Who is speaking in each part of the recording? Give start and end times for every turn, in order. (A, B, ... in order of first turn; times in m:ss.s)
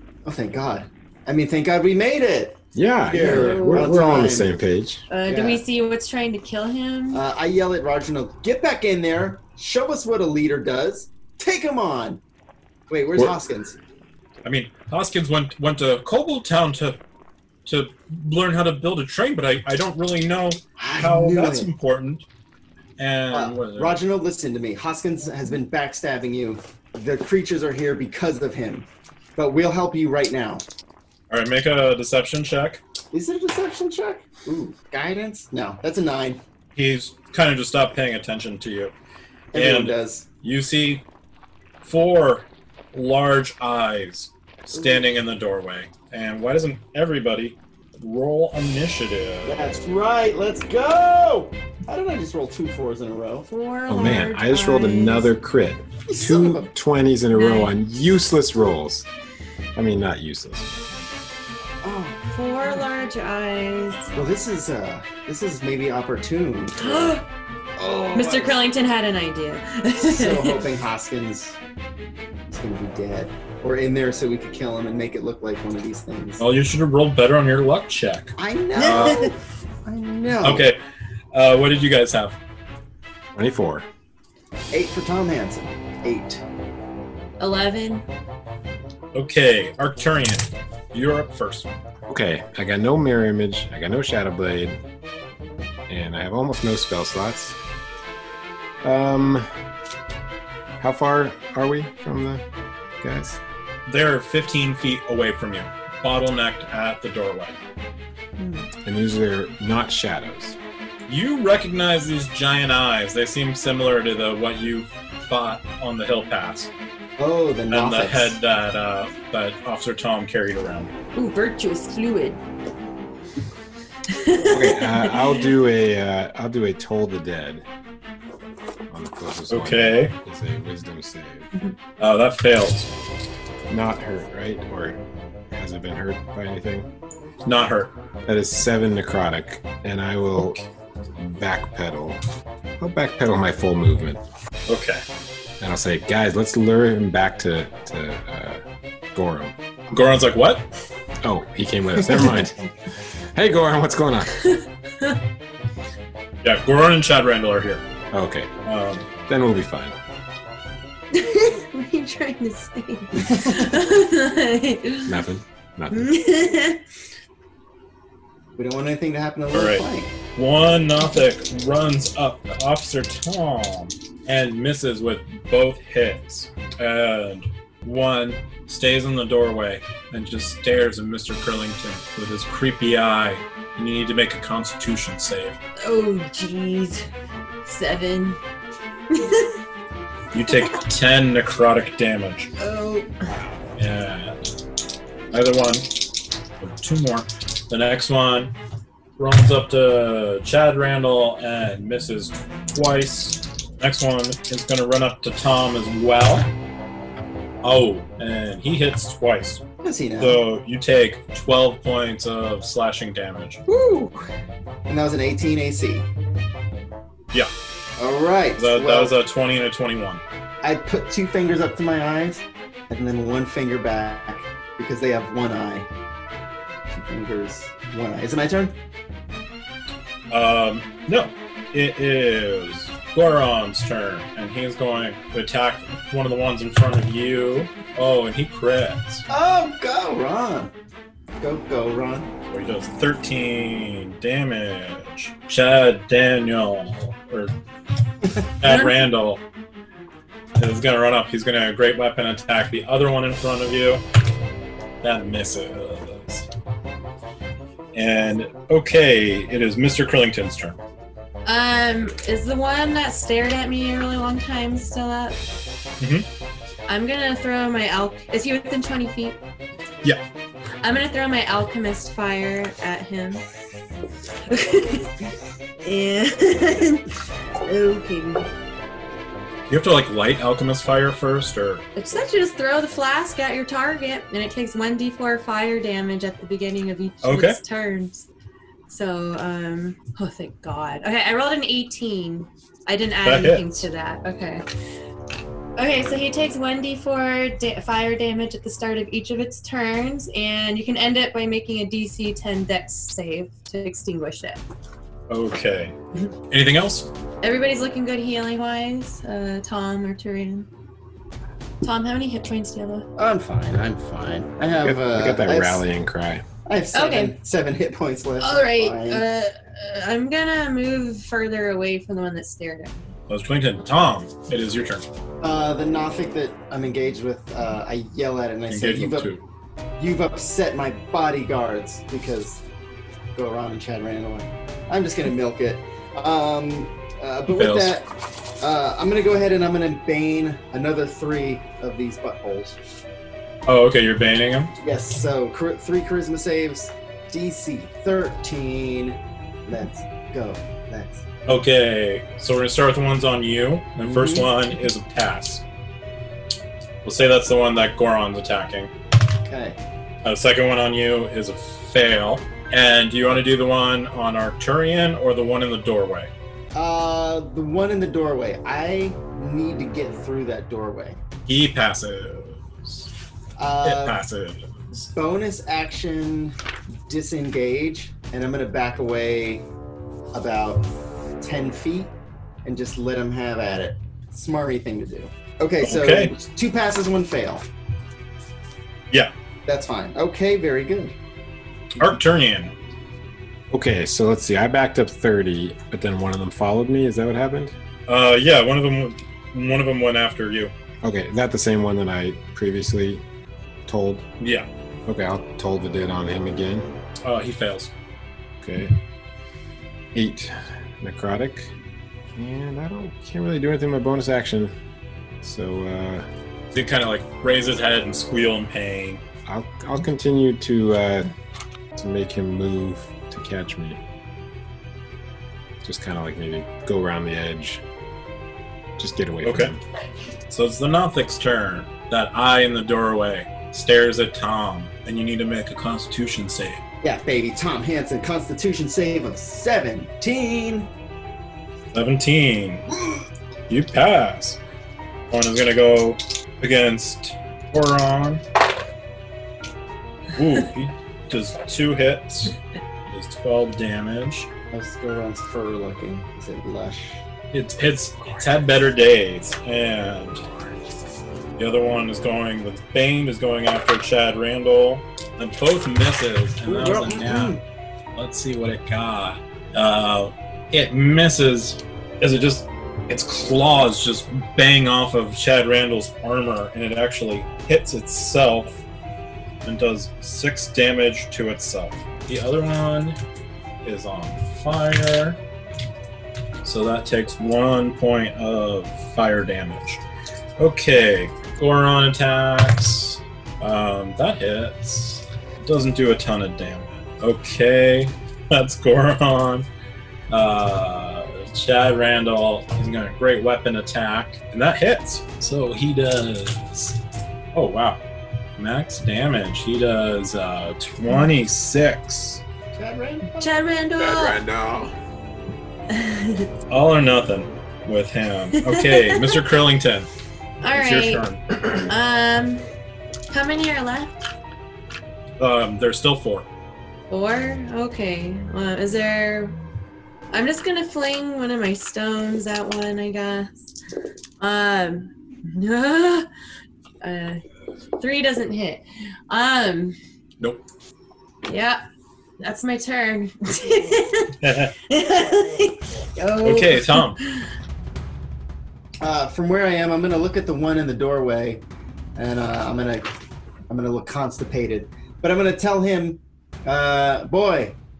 0:00.2-0:04.6 A
0:02.7-0:05.0 B
0:03.1-0:03.9 C
0:05.1-0:07.2 C
0:05.3-0:05.6 A
0:07.1-0:12.2 A
0:12.9-0:13.8 A
0:14.4-0:17.0 D
0:17.6-0:22.2 D
0:20.8-0:21.7 A
0:23.0-0:24.0 D
0:23.3-0:30.6 A
0:31.3-0:32.8 D
0:33.1-0:36.4 A
0:36.8-0:38.9 D
0:39.5-0:40.2 A
0:39.5-0:41.0 D
0:41.8-0:49.8 D
0:44.7-0:45.1 A
0:49.4-0:53.5 A
0:53.5-0:55.3 C
0:53.9-0:59.1 B
0:56.1-0:56.7 A
0:57.3-0:57.7 C
0:59.7-1:00.8 B
1:01.8-1:02.2 A
1:02.3-1:04.1 C
1:04.1-1:07.2 A
1:06.8-1:07.2 C
1:07.8-1:08.6 A
1:08.1-1:10.6 C
1:10.0-1:11.6 A
1:12.5-1:16.4 A
1:16.4-1:19.2 D
1:18.4-1:20.7 A
1:18.8-1:19.3 C
1:20.4-1:20.8 D
1:21.3-1:22.4 D
1:23.3-1:23.9 B
1:24.7-1:26.4 A
1:27.4-1:28.0 C
1:29.1-1:31.7 D
1:32.1-1:34.8 B
1:35.9-1:37.6 B
1:38.8-1:39.4 B
1:40.8-1:42.4 B
1:43.0-1:43.4 B
1:43.9-1:47.6 D
1:48.4-1:48.7 C
1:48.8-1:50.6 B
1:51.1-1:56.7 D
1:57.2-1:58.4 A
1:57.7-2:00.9 D
2:01.1-2:02.4 C
2:04.1-2:05.5 C
2:04.4-2:07.6 B
2:08.9-2:11.5 B
2:09.5-2:10.1 D
2:12.0-2:12.9 D
2:13.7-2:15.0 B
2:15.5-2:16.9 B
2:17.4-2:18.0 D
2:18.2-2:20.6 B
2:21.2-2:22.2 B
2:22.8-2:24.2 B
2:24.7-2:25.0 D
2:25.6-2:28.6 B
2:29.1-2:29.5 B
2:29.9-2:30.6 D
2:31.2-2:32.6 B
2:33.3-2:34.4 B
2:34.4-2:35.2 C
2:36.4-2:37.8 D
2:38.1-2:38.5 B
2:38.6-2:39.1 D
2:39.3-2:40.0 B
2:41.1-2:45.2 C
2:43.3-2:43.6 A
2:45.0-2:46.1 B
2:45.9-2:46.8 C
2:48.6-2:50.1 A
2:49.5-2:49.8 D
2:50.4-3:05.6 D
3:05.8-3:07.1 C
3:07.6-3:08.4 C
3:09.1-3:09.6 C
3:10.3-3:12.5 D
3:10.5-3:10.8 C
3:12.6-3:13.2 C
3:13.8-3:14.4 D
3:15.3-3:18.5 D
3:19.2-3:26.5 D
3:27.6-3:29.6 D
3:29.8-3:30.4 A
3:30.2-3:33.6 D
3:33.7-3:34.3 A
3:34.9-3:36.1 A
3:38.0-3:39.1 A
3:38.6-3:40.2 D
3:40.6-3:45.9 A
3:46.9-3:48.8 A
3:50.3-3:59.2 D
3:59.3-4:00.7 A
4:01.4-4:02.3 A
4:02.5-4:07.5 D
4:08.5-4:09.4 D
4:08.6-4:09.0 C
4:10.6-4:14.0 D
4:15.0-4:16.5 D
4:17.9-4:20.8 D
4:21.4-4:25.4 C
4:26.0-4:26.2 D
4:26.9-4:29.4 C
4:30.8-4:33.4 C
4:34.4-4:38.5 C
4:39.7-4:41.8 D
4:42.0-4:48.3 C
4:47.2-4:47.6 D
4:48.9-4:54.6 C
4:53.2-4:53.9 D
4:55.8-5:04.6 C
5:05.3-5:05.9 D
5:06.5-5:07.1 D
5:07.4-5:10.7 C
5:11.8-5:13.0 C
5:13.2-5:15.8 A
5:14.8-5:16.4 B
5:16.6-5:19.2 A
5:16.9-5:17.3 C
5:18.4-5:23.0 C
5:23.3-5:25.0 D
5:25.4-5:29.3 A
5:28.7-5:29.4 D
5:30.0-5:32.6 A
5:33.3-5:42.8 A
5:37.5-5:38.0 D
5:43.6-5:44.7 D
5:44.8-5:51.2 A
5:51.5-5:55.6 D
5:54.0-5:54.5 A
5:57.0-5:58.9 D
5:59.4-5:59.8 A
6:00.2-6:06.3 D
6:06.7-6:11.2 A
6:11.5-6:13.1 D
6:13.6-6:14.2 A
6:13.8-6:15.1 D
6:15.1-6:16.5 A
6:17.1-6:19.7 A
6:20.3-6:20.9 A
6:21.4-6:22.1 A
6:22.6-6:27.7 A
6:25.8-6:26.3 D
6:29.6-6:31.1 A
6:32.0-6:32.7 D
6:33.7-6:37.7 B
6:38.1-6:40.7 D
6:41.0-6:43.2 B
6:43.9-6:44.2 B
6:44.4-6:44.7 D
6:45.1-6:46.9 B
6:47.2-6:47.9 D
6:48.6-6:49.0 B
6:50.1-6:51.7 B
6:52.3-6:54.7 B
6:55.4-6:56.3 B
6:56.7-6:59.2 D
6:59.5-7:01.3 B
7:02.0-7:04.0 B
7:05.8-7:07.8 B
7:09.0-7:09.8 B
7:09.4-7:09.7 D
7:10.5-7:16.8 D
7:17.0-7:20.9 A
7:21.9-7:22.9 D
7:23.7-7:24.6 D
7:25.3-7:28.4 D
7:30.3-7:32.6 D
7:33.1-7:34.5 D
7:34.7-7:37.2 A
7:37.5-7:40.4 D
7:41.6-7:47.6 D
7:46.7-7:47.6 A
7:48.1-7:58.8 D
7:59.6-8:03.2 D
8:03.8-8:05.4 D
8:06.6-8:10.0 D
8:10.6-8:19.7 D
8:20.3-8:27.0 D
8:27.5-8:28.0 D
8:28.6-8:32.4 D
8:32.7-8:33.5 A
8:33.4-8:34.4 C
8:34.0-8:34.9 B
8:35.9-8:36.5 C
8:36.7-8:40.1 D
8:38.6-8:39.3 C
8:40.6-8:42.6 C
8:40.7-8:41.4 D
8:43.3-8:44.2 C
8:45.4-8:46.5 D
8:47.1-8:49.6 C
8:50.3-8:53.5 C
8:54.4-8:56.3 C
8:57.0-8:57.4 C
8:58.0-9:00.0 C
9:01.4-9:01.8 C
9:02.4-9:07.4 C
9:04.4-9:04.7 D
9:06.4-9:07.2 D
9:09.0-9:11.6 A
9:12.2-9:13.1 A
9:13.7-9:17.8 A